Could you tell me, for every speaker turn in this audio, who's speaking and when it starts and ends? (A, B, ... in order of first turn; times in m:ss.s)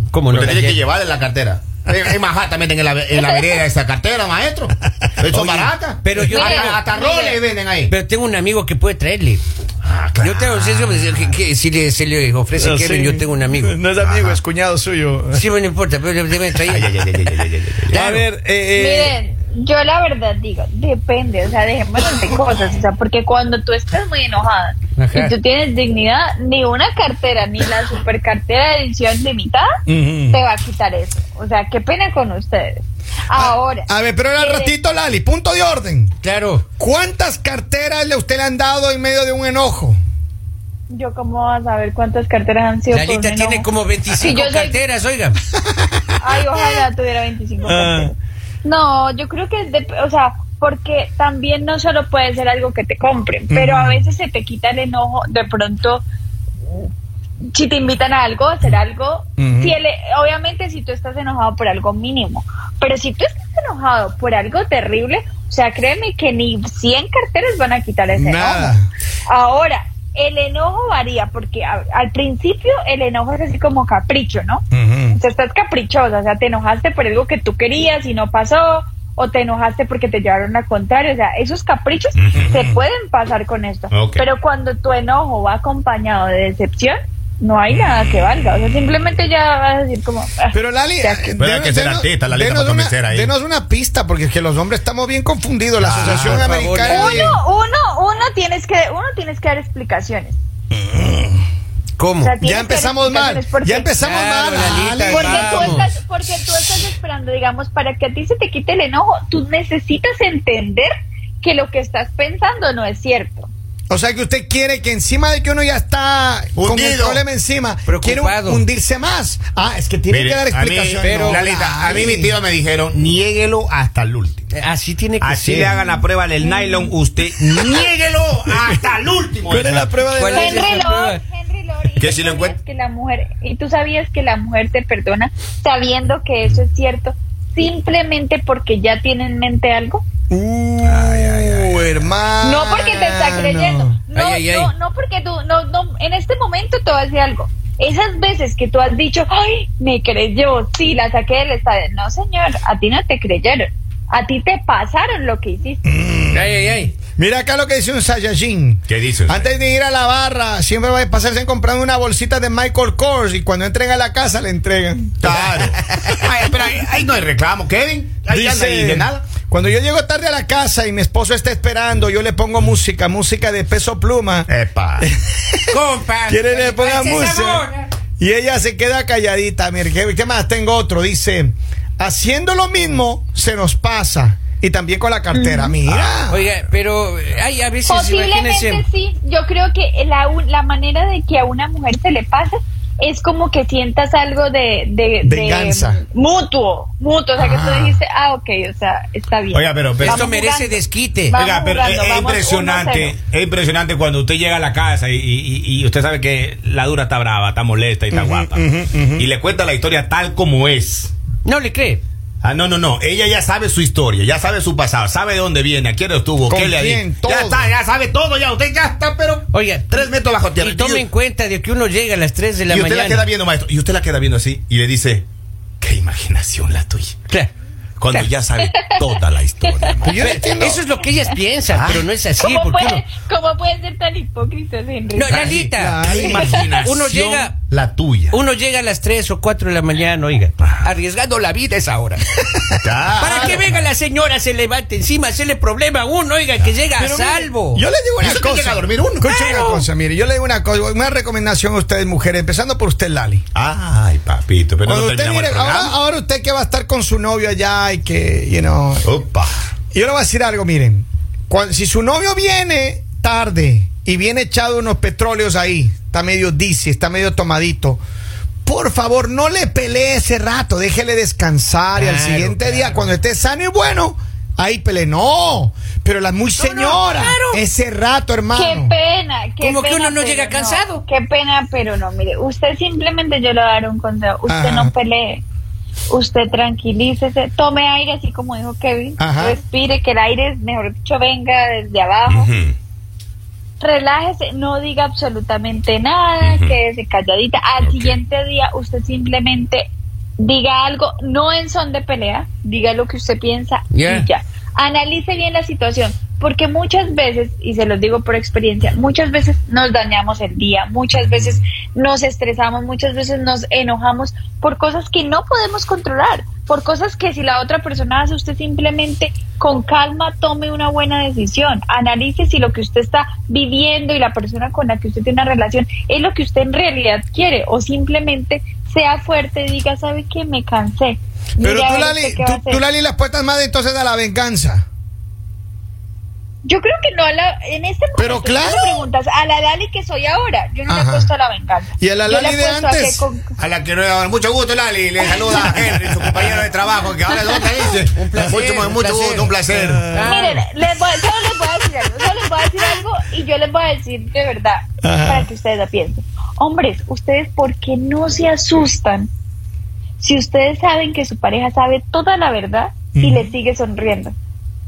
0:00.1-0:00.8 A
0:00.3-0:07.9 B
0:03.2-0:03.4 C
0:04.9-0:05.7 D
0:06.0-0:06.8 A
0:06.2-0:07.4 C
0:07.9-0:09.4 A
0:09.8-0:11.3 B
0:10.2-0:13.8 A
0:12.5-0:15.4 D
0:14.0-0:14.4 B
0:15.3-0:17.0 A
0:16.6-0:18.1 B
0:17.9-0:18.2 A
0:17.9-0:19.2 D
0:18.7-0:29.7 C
0:25.0-0:25.3 A
0:29.9-0:30.4 D
0:30.3-0:33.9 C
0:33.3-0:36.1 D
0:34.4-0:34.7 C
0:36.2-0:36.6 A
0:36.8-0:40.0 D
0:40.9-0:44.8 C
0:42.9-0:45.4 A
0:45.8-0:46.7 D
0:46.2-0:56.0 C
0:47.6-0:48.1 D
0:53.5-0:54.1 D
0:57.5-1:08.8 C
0:59.4-0:59.8 D
1:08.1-1:08.9 D
1:09.3-1:31.4 C
1:14.7-1:15.2 D
1:22.2-1:22.6 B
1:22.4-1:22.8 D
1:23.9-1:24.3 B
1:30.5-1:37.4 D
1:31.4-1:33.3 B
1:35.8-1:36.5 B
1:36.0-1:37.3 A
1:36.8-1:40.4 C
1:40.7-1:41.4 D
1:42.0-1:42.4 A
1:42.2-1:43.9 C
1:42.4-1:45.8 D
1:44.0-1:45.9 A
1:45.1-1:50.9 C
1:51.4-1:53.5 C
1:53.9-2:02.3 D
1:56.6-1:57.2 B
1:57.9-1:58.6 A
2:00.1-2:04.4 B
2:01.0-2:01.4 A
2:04.5-2:05.7 A
2:05.2-2:09.9 B
2:05.7-2:06.0 C
2:09.5-2:10.9 D
2:10.1-2:11.2 A
2:10.3-2:20.1 C
2:12.0-2:12.6 B
2:20.3-2:24.0 D
2:20.8-2:22.1 B
2:22.4-2:35.9 C
2:24.1-2:24.7 A
2:35.8-2:36.6 D
2:36.3-2:36.9 A
2:37.2-2:45.7 D
2:38.9-2:39.5 B
2:45.2-2:49.2 B
2:48.3-2:55.8 D
2:54.5-2:55.1 B
2:55.7-2:57.9 A
2:56.3-2:57.7 D
2:58.2-3:06.5 D
3:05.3-3:05.8 C
3:05.9-3:06.2 B
3:06.3-3:08.8 A
3:07.8-3:23.2 C
3:15.2-3:16.0 D
3:17.4-3:18.0 D
3:19.5-3:20.3 B
3:20.0-3:21.3 A
3:21.3-3:28.6 B
3:28.1-3:29.3 D
3:29.2-3:31.1 B
3:31.4-3:32.0 A
3:32.4-3:41.0 B
3:36.4-3:37.7 D
3:39.5-3:43.3 A
3:42.7-3:45.2 B
3:45.8-3:47.1 B
3:48.0-3:50.2 B
3:48.6-3:50.0 C
3:50.0-3:50.8 D
3:50.2-3:53.0 A
3:51.7-3:52.1 B
3:52.4-3:55.6 C
3:55.1-3:57.5 A
3:55.4-3:58.4 B
3:55.5-3:56.7 D
3:56.3-3:56.6 C
3:58.3-4:02.2 A
4:02.5-4:03.6 D
4:02.8-4:03.9 B
4:03.2-4:07.8 A
4:07.0-4:13.4 D
4:08.2-4:09.3 B
4:09.2-4:09.9 A
4:13.5-4:15.9 B
4:14.8-4:19.1 D
4:19.0-4:19.5 B
4:19.9-4:28.0 D
4:28.6-4:38.9 D
4:32.0-4:32.9 A
4:36.6-4:37.6 A
4:38.5-4:45.4 C
4:39.6-4:41.0 A
4:44.5-4:44.9 D
4:46.1-4:52.5 C
4:49.2-4:49.6 D
4:52.3-4:52.8 B
4:53.8-5:32.8 C
4:56.4-4:56.8 B
4:57.8-4:58.2 B
5:03.9-5:04.3 A
5:31.6-5:34.8 D
5:36.6-5:43.5 C
5:38.2-5:39.1 D
5:40.9-5:41.3 D
5:42.0-5:43.2 D
5:43.6-5:50.1 B
5:45.4-5:46.5 D
5:48.1-5:49.5 A
5:49.7-5:50.6 D
5:50.1-5:50.6 A
5:50.2-5:59.3 C
5:55.0-5:55.5 D
6:00.2-6:04.3 C
6:03.1-6:03.5 D